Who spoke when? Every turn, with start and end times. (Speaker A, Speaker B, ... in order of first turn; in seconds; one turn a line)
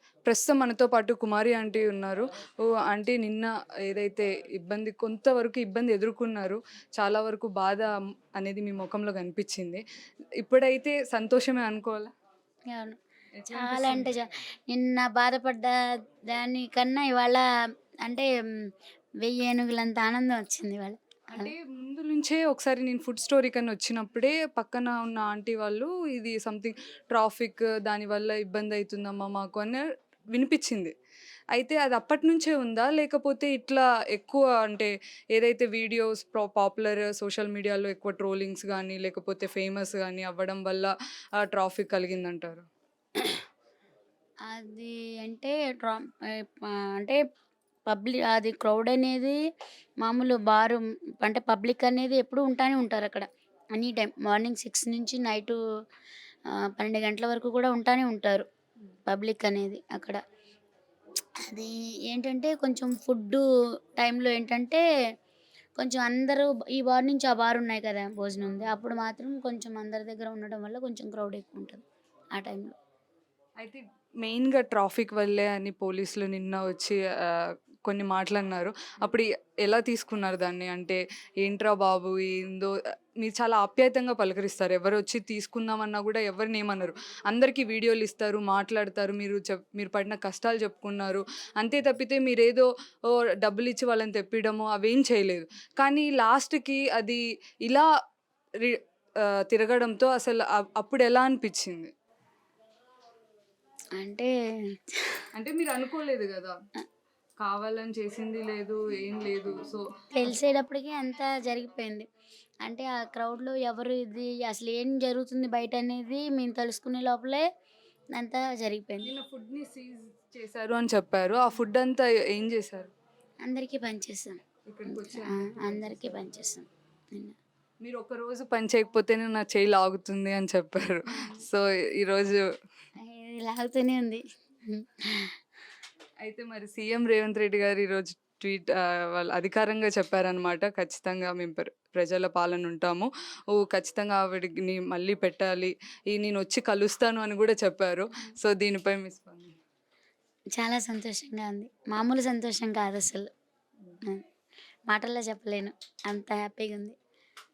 Speaker A: 0.3-9.8
Speaker A: 10.4-12.1
Speaker B: 12.7-13.0
Speaker A: 13.4-14.1
Speaker B: 13.5-15.8
Speaker B: 16.3-17.4
Speaker B: 18.1-18.7
Speaker B: 19.2-21.5
Speaker A: 21.3-30.9
Speaker A: 31.5-42.7
Speaker B: 44.5-47.2
Speaker B: 47.9-49.4
Speaker B: 50.0-55.6
Speaker B: 56.8-58.5
Speaker B: 59.1-60.2
Speaker B: 61.5-63.4
Speaker B: 64.0-64.8
Speaker B: 65.8-71.8
Speaker B: 72.4-72.7
Speaker A: 73.6-97.9
Speaker A: 98.6-101.9
Speaker B: 104.0-105.2
Speaker A: 105.3-106.6
Speaker A: 107.4-109.8
Speaker B: 110.1-112.1
Speaker B: 112.7-117.5
Speaker B: 118.1-119.1
Speaker A: 119.0-122.9
Speaker B: 123.5-127.3
Speaker A: 124.7-126.2
Speaker A: 127.8-132.4
Speaker B: 133.0-135.3
Speaker A: 136.2-149.6
Speaker B: 150.6-153.3
Speaker B: 154.9-157.0